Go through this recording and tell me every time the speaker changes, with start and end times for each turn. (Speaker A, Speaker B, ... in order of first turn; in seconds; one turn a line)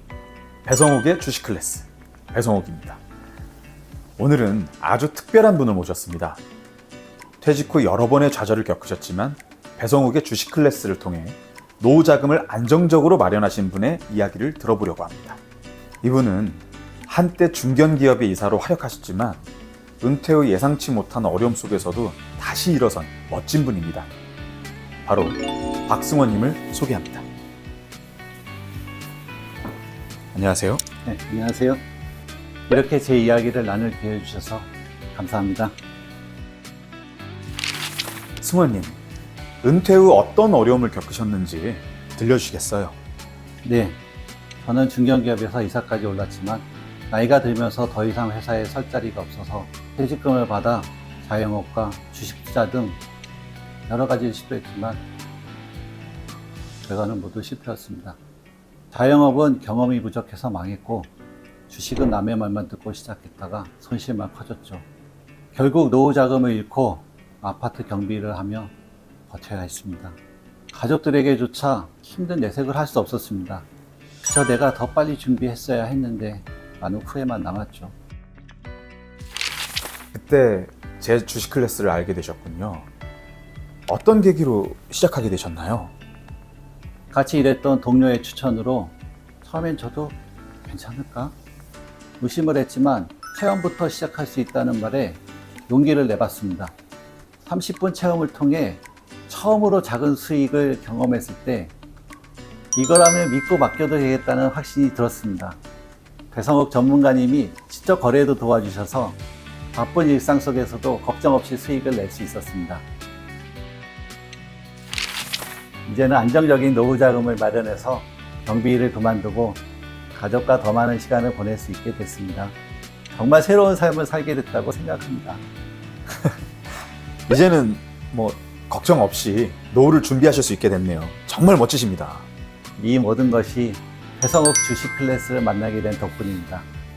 Speaker A: 0.7-3.0
Speaker A: 4.2-6.4
Speaker A: 7.4-15.4
Speaker A: 16.0-19.4
Speaker A: 20.0-24.1
Speaker A: 25.1-27.2
Speaker A: 30.3-30.8
Speaker B: 31.1-31.8
Speaker B: 32.7-35.7
Speaker A: 38.4-39.0
Speaker A: 39.6-43.0
Speaker B: 43.6-44.0
Speaker B: 44.6-53.0
Speaker B: 53.9-55.0
Speaker B: 56.8-58.2
Speaker B: 58.9-61.1
Speaker B: 61.7-64.9
Speaker B: 65.5-68.7
Speaker B: 69.3-70.2
Speaker B: 70.7-73.7
Speaker B: 74.2-77.9
Speaker A: 80.1-82.9
Speaker A: 83.9-85.9
Speaker B: 87.1-90.2
Speaker B: 90.7-91.3
Speaker B: 92.2-96.7
Speaker B: 97.4-101.7
Speaker B: 102.8-105.6
Speaker B: 106.3-109.2
Speaker B: 109.7-112.8
Speaker B: 115.9-119.6
Speaker B: 120.1-122.5
Speaker B: 123.1-125.4
Speaker A: 127.3-132.3
Speaker B: 132.8-136.7